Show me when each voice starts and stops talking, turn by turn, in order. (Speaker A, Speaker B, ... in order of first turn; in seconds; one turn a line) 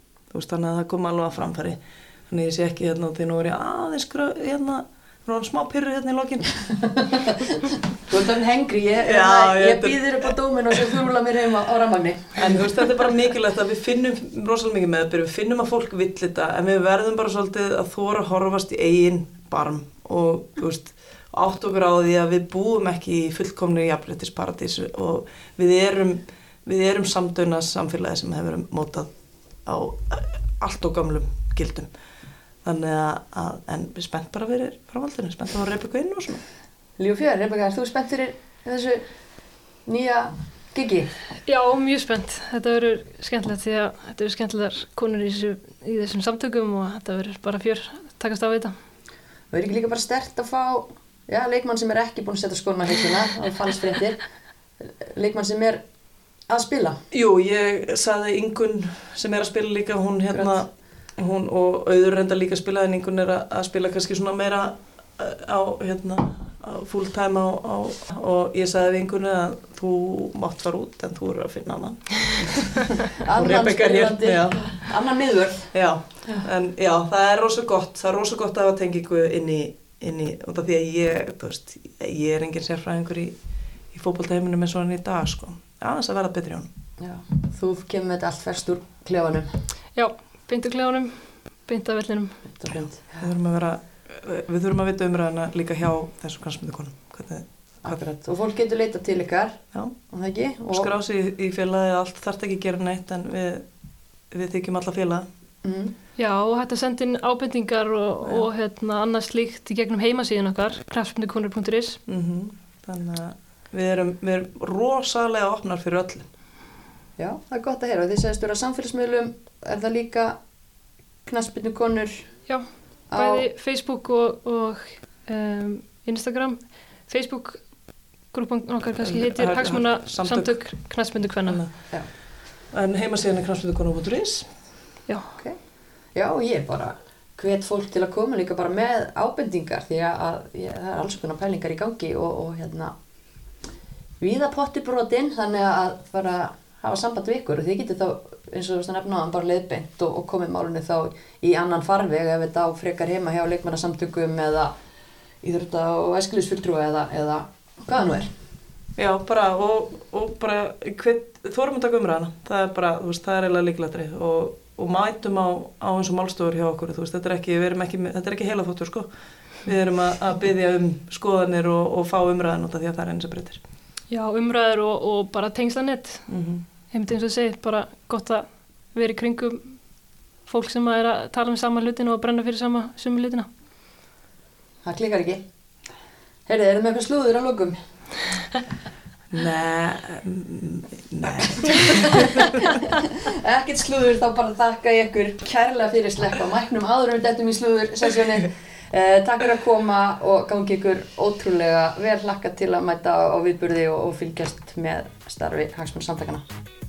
Speaker A: 0.3-6.7
Speaker B: 6.8-12.9
Speaker A: 9.0-10.8
Speaker A: 12.4-29.1
Speaker A: 29.6-31.9
Speaker A: 32.6-36.4
Speaker B: 37.0-39.0
Speaker B: 39.9-41.1
Speaker C: 41.5-48.8
Speaker B: 49.5-54.2
Speaker B: 54.9-55.8
Speaker B: 56.5-57.0
Speaker A: 57.1-74.9
Speaker B: 73.1-75.7
Speaker A: 75.7-83.3
Speaker A: 83.9-86.7
Speaker B: 87.0-89.6
Speaker C: 90.0-92.5
Speaker B: 92.5-93.3
Speaker A: 93.2-98.0
Speaker B: 97.8-100.9
Speaker A: 100.7-103.7
Speaker A: 104.3-105.3
Speaker B: 105.6-105.9
Speaker C: 106.2-112.0
Speaker A: 112.1-116.3
Speaker B: 117.2-120.4
Speaker B: 121.3-122.3
Speaker C: 122.5-127.6
Speaker B: 123.1-123.5
Speaker C: 128.3-131.6
Speaker A: 129.0-130.6
Speaker A: 132.7-134.5
Speaker C: 135.1-135.4
Speaker B: 136.1-142.9
Speaker B: 144.2-154.7
Speaker B: 155.4-158.3
Speaker A: 159.0-169.1
Speaker A: 169.6-173.6
Speaker C: 174.1-176.3
Speaker A: 176.3-176.6
Speaker C: 176.9-179.8
Speaker C: 180.5-183.5
Speaker B: 184.8-185.4
Speaker B: 186.5-187.8
Speaker A: 189.3-192.5
Speaker B: 191.7-206.5